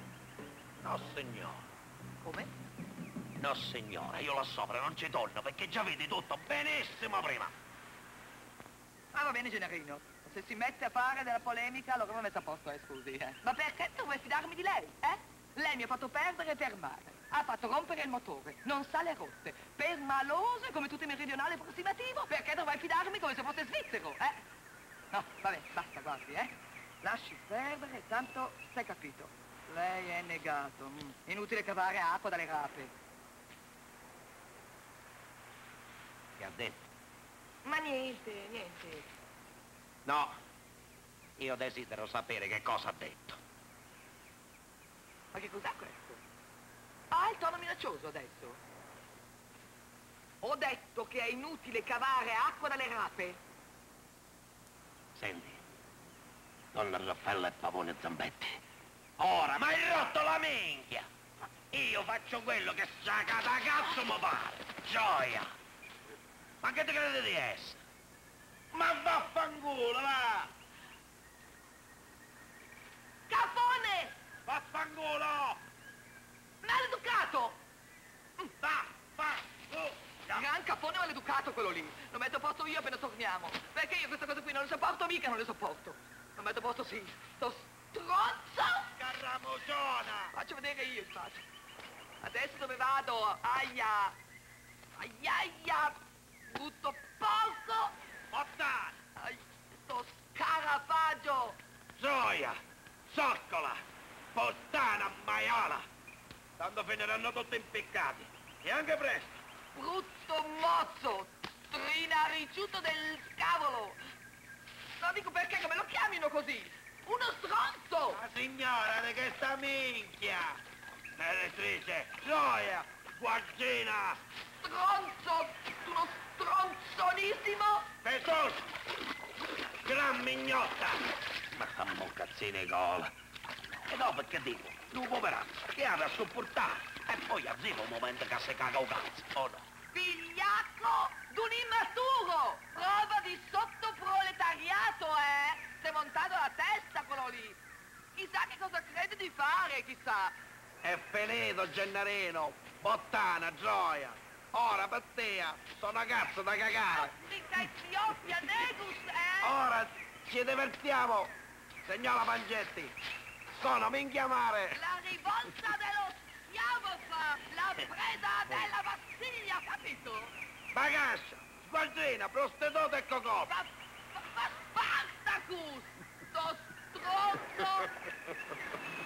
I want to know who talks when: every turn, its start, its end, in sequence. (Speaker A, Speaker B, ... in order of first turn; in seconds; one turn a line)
Speaker A: 0.8-1.6
Speaker B: 2.2-2.5
Speaker A: 3.4-7.5
Speaker B: 9.1-24.4
Speaker B: 25.1-32.9
Speaker A: 36.4-36.8
Speaker B: 37.6-39.1
Speaker A: 40.0-40.3
Speaker A: 41.4-43.4
Speaker B: 45.3-46.2
Speaker B: 47.1-48.6
Speaker B: 50.4-53.4
Speaker A: 55.1-55.6
Speaker A: 56.7-58.6
Speaker A: 59.2-61.0
Speaker A: 61.7-65.5
Speaker A: 66.6-67.8
Speaker A: 68.7-70.5
Speaker B: 73.3-74.1
Speaker A: 74.5-75.6
Speaker B: 76.6-77.6
Speaker A: 78.6-80.5
Speaker B: 80.3-88.9
Speaker A: 89.0-90.3
Speaker B: 90.3-91.4
Speaker B: 92.2-94.2
Speaker B: 95.0-96.0
Speaker B: 96.5-97.9
Speaker A: 98.3-99.0
Speaker B: 99.2-101.6
Speaker A: 102.0-102.6
Speaker A: 103.1-103.8
Speaker A: 104.3-105.8
Speaker A: 106.6-109.4
Speaker B: 109.7-114.0
Speaker B: 115.0-118.2
Speaker A: 118.1-120.6
Speaker A: 121.2-124.2
Speaker B: 124.6-127.9
Speaker A: 128.0-128.7
Speaker A: 129.8-133.1
Speaker A: 133.9-139.7
Speaker B: 139.9-147.6
Speaker B: 148.2-150.3
Speaker A: 150.8-157.1
Speaker B: 156.9-159.6
Speaker A: 159.4-161.3
Speaker A: 161.9-162.9
Speaker A: 163.6-164.8
Speaker B: 164.7-170.3
Speaker A: 170.7-173.5
Speaker B: 173.4-178.0